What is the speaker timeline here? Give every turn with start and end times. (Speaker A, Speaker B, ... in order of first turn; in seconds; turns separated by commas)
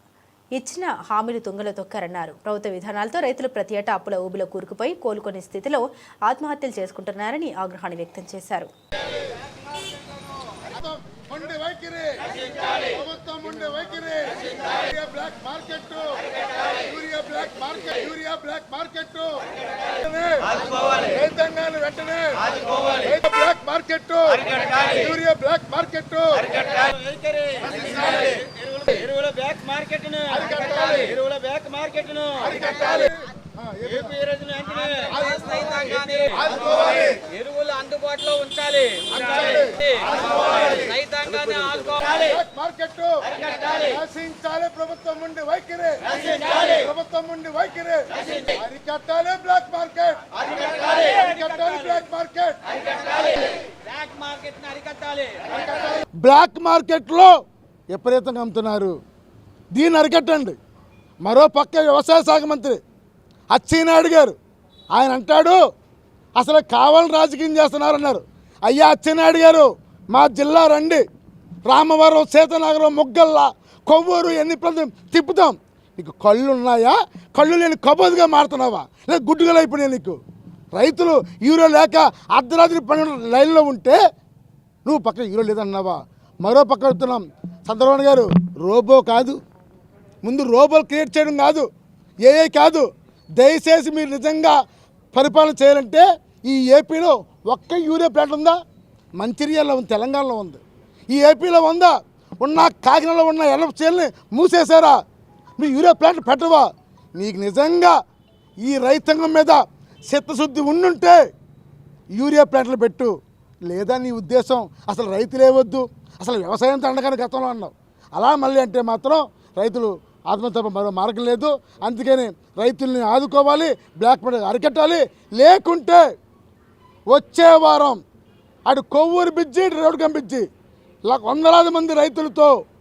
Speaker A: 0.6-8.7, Speaker B: 10.7-12.2, Speaker B: 12.8-16.2, Speaker B: 16.7-22.4, Speaker B: 23.0-26.5, Speaker C: 26.9-32.5, Speaker B: 27.8-28.1, Speaker B: 30.4-31.1, Speaker B: 32.4-34.2, Speaker C: 34.1-36.4, Speaker B: 35.1-37.2, Speaker C: 37.3-39.1, Speaker B: 39.1-40.9, Speaker C: 40.9-42.0, Speaker B: 42.0-52.6, Speaker C: 53.9-55.4, Speaker B: 56.2-57.3, Speaker B: 57.9-59.0, Speaker B: 59.7-60.6, Speaker B: 61.2-62.8, Speaker B: 63.5-64.3, Speaker B: 64.9-65.6, Speaker B: 66.3-71.0, Speaker B: 71.6-80.2, Speaker B: 80.7-84.0, Speaker B: 84.8-89.4, Speaker B: 90.2-91.7, Speaker B: 92.2-94.6, Speaker B: 95.1-98.6, Speaker B: 99.2-105.0, Speaker B: 105.6-108.0, Speaker B: 108.6-111.2, Speaker B: 112.1-113.1, Speaker B: 113.7-126.0, Speaker B: 127.1-128.0, Speaker B: 128.7-130.5, Speaker B: 131.0-132.6